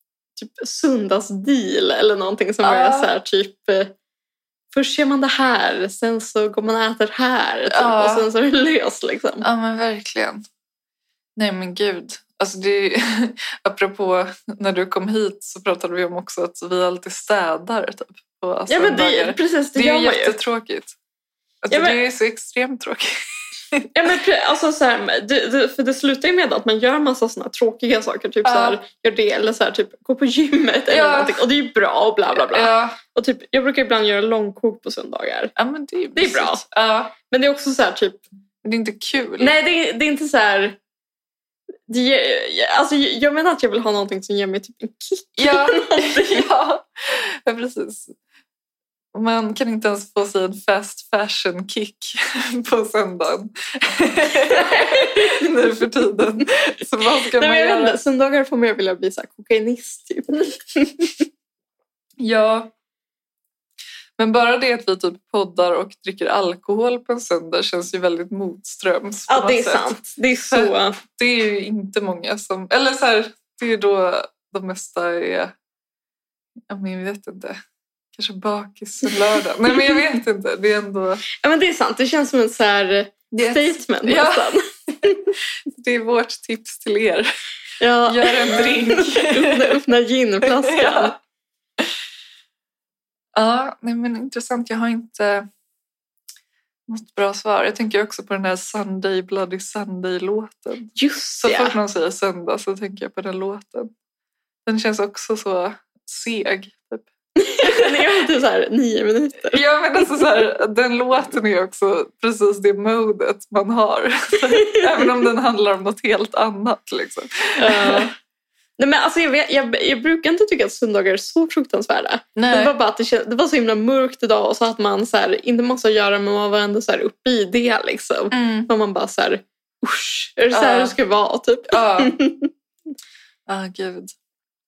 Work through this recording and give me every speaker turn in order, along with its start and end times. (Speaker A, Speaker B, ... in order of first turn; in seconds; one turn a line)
Speaker A: 0.3-3.9
Speaker B: 2.6-3.1
Speaker A: 4.7-9.4
Speaker B: 7.7-8.2
Speaker B: 9.4-10.4
Speaker B: 11.3-20.9
Speaker A: 18.7-20.4
Speaker B: 21.6-23.1
Speaker A: 21.7-22.0
Speaker A: 23.9-35.5
Speaker B: 28.4-28.8
Speaker B: 30.9-31.4
Speaker B: 32.3-33.0
Speaker B: 35.5-37.1
Speaker A: 36.1-36.6
Speaker A: 37.2-38.2
Speaker B: 38.6-39.5
Speaker A: 39.4-40.8
Speaker A: 41.9-46.5
Speaker B: 45.4-48.1
Speaker B: 49.1-58.0
Speaker A: 54.5-55.5
Speaker A: 57.4-61.2
Speaker B: 62.2-62.7
Speaker B: 64.2-75.5
Speaker A: 69.3-71.0
Speaker B: 76.7-77.6
Speaker B: 78.1-81.2
Speaker A: 81.4-85.3
Speaker B: 83.3-84.5
Speaker B: 85.7-87.3
Speaker A: 87.8-91.2
Speaker B: 88.0-89.8
Speaker B: 90.4-91.1
Speaker B: 93.3-95.5
Speaker B: 96.9-103.9
Speaker A: 101.0-101.8
Speaker B: 104.7-107.1
Speaker A: 107.4-109.6
Speaker B: 107.6-108.0
Speaker B: 109.5-118.1
Speaker A: 114.5-114.9
Speaker A: 117.6-118.1
Speaker A: 118.8-132.5
Speaker B: 122.3-122.7
Speaker B: 128.3-128.7
Speaker B: 130.5-130.9
Speaker B: 131.7-132.2
Speaker B: 133.5-134.1